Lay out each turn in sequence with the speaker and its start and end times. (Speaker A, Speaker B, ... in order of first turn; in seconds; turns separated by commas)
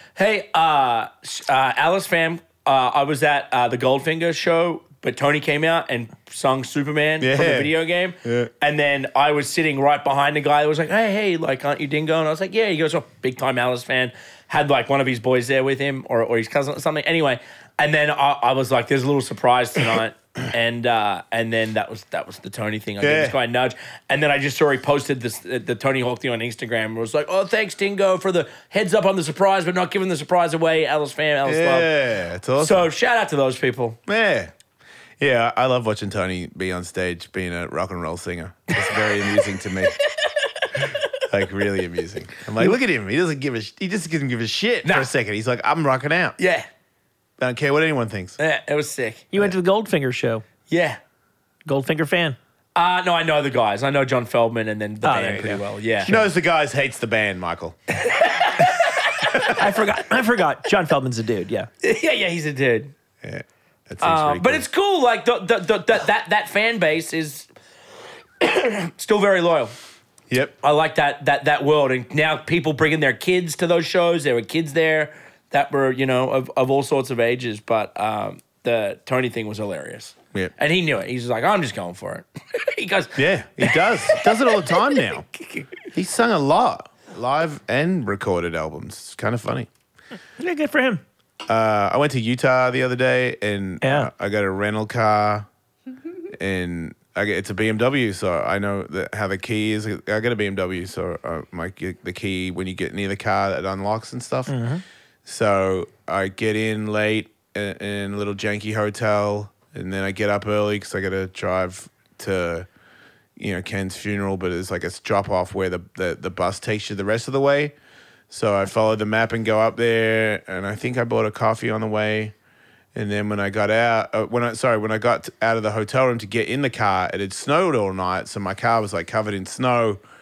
Speaker A: 0.2-31.9, Speaker B: 7.2-8.5, Speaker B: 23.0-23.4, Speaker B: 31.4-32.9, Speaker A: 32.6-34.0, Speaker B: 34.1-34.5, Speaker B: 35.2-40.0, Speaker A: 38.8-39.4, Speaker A: 40.5-40.8, Speaker B: 40.8-46.4, Speaker A: 44.9-45.1, Speaker A: 46.4-46.7, Speaker B: 47.4-48.4, Speaker A: 48.4-49.3, Speaker C: 49.3-50.5, Speaker A: 50.7-51.0, Speaker C: 51.7-52.4, Speaker A: 52.8-56.1, Speaker C: 55.0-56.3, Speaker B: 56.1-57.8, Speaker A: 58.0-59.3, Speaker C: 59.4-61.7, Speaker A: 61.8-62.9, Speaker B: 63.2-64.6, Speaker A: 64.0-67.5, Speaker A: 68.4-69.7, Speaker B: 70.3-70.5, Speaker A: 70.6-85.7, Speaker B: 83.2-85.2, Speaker B: 85.9-89.7, Speaker C: 90.4-91.0, Speaker B: 91.5-95.5, Speaker C: 93.8-94.1, Speaker B: 96.3-104.6, Speaker C: 104.5-104.8, Speaker B: 105.2-112.7, Speaker B: 113.4-117.8, Speaker B: 118.3-122.3, Speaker B: 123.0-130.0